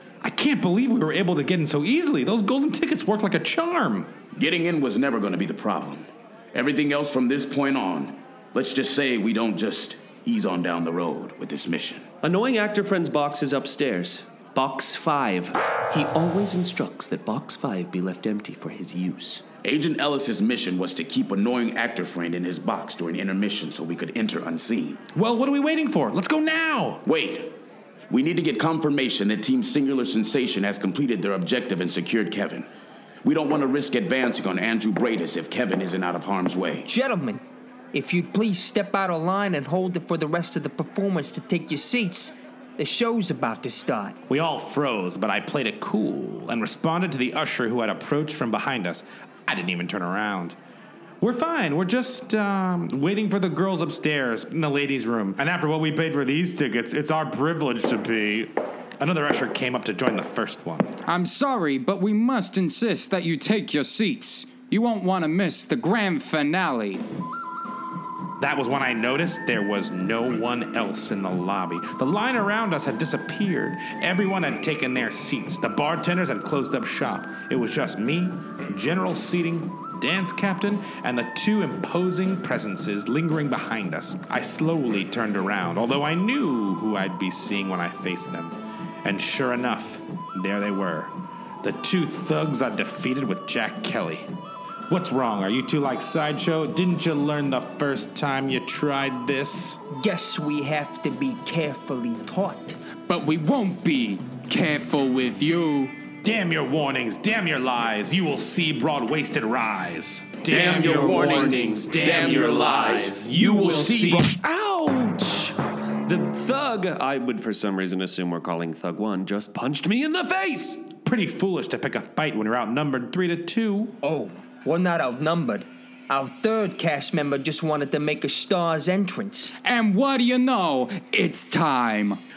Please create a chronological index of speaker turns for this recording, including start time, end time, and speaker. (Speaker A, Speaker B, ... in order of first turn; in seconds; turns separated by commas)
Speaker A: 0.2-4.1, Speaker B: 4.3-12.1, Speaker C: 12.2-19.4, Speaker B: 19.6-25.0, Speaker A: 25.1-27.0, Speaker B: 27.1-27.6, Speaker B: 28.1-32.7, Speaker B: 33.2-36.9, Speaker D: 36.9-37.4, Speaker D: 37.9-44.2, Speaker A: 44.3-50.6, Speaker A: 51.2-60.9, Speaker E: 61.1-67.0, Speaker A: 68.4-94.3, Speaker A: 94.9-99.8, Speaker D: 99.9-102.8, Speaker E: 103.1-105.9, Speaker A: 106.2-114.2, Speaker B: 110.5-114.3, Speaker C: 114.3-115.5, Speaker C: 116.1-120.9, Speaker A: 121.0-124.0, Speaker D: 124.0-129.5, Speaker E: 129.6-132.2